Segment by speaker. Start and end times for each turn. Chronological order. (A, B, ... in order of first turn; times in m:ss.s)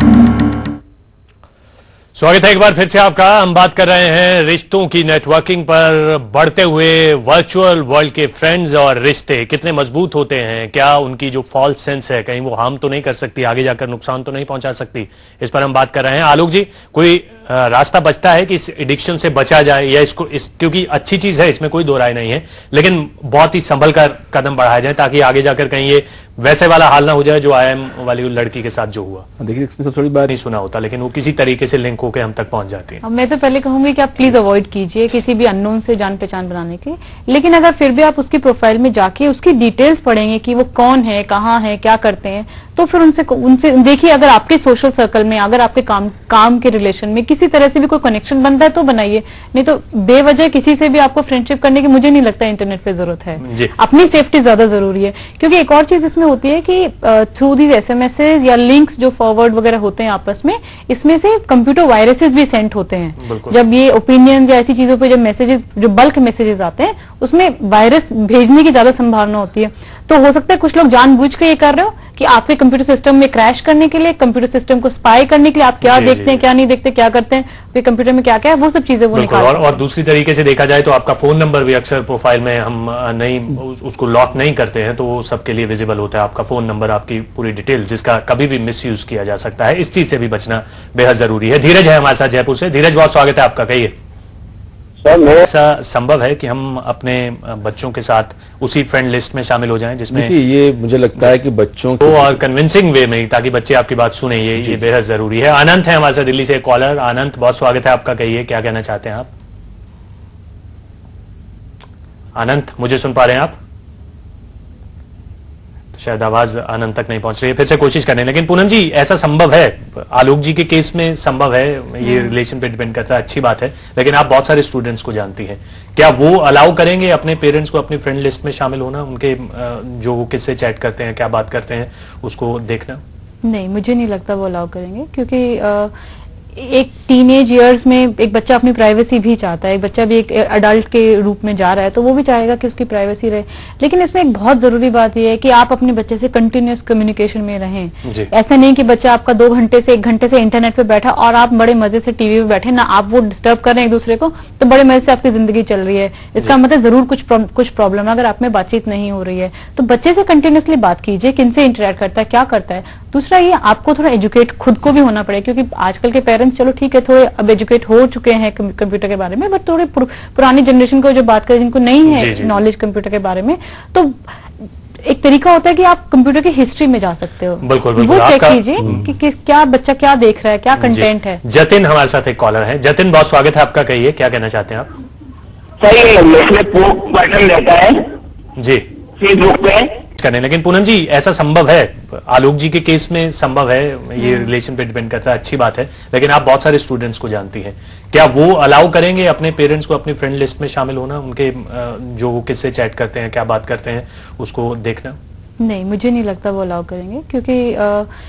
0:02.2-0:29.3 A
0:29.4-0:30.3 B
0:30.3-0:33.0 A
0:33.0-1:19.8 C
0:53.4-0:53.7 A
1:03.2-1:03.6 A
1:15.8-1:16.4 A
1:19.1-1:33.9 A
1:35.0-1:35.4 D
1:35.4-1:40.3 A
1:40.1-1:42.4 B
1:42.0-1:49.3 A
1:52.4-1:53.6 A
1:56.0-2:13.0 A
2:02.0-2:02.4 C
2:13.4-2:15.9 C
2:16.6-3:01.4 C
2:28.0-2:28.3 A
2:52.1-2:52.6 A
2:57.6-2:59.1 A
3:00.8-3:04.9 A
3:05.8-3:08.0 D
3:08.6-3:08.8 A
3:09.2-3:09.9 D
3:10.2-3:25.2 A
3:25.6-3:28.1 C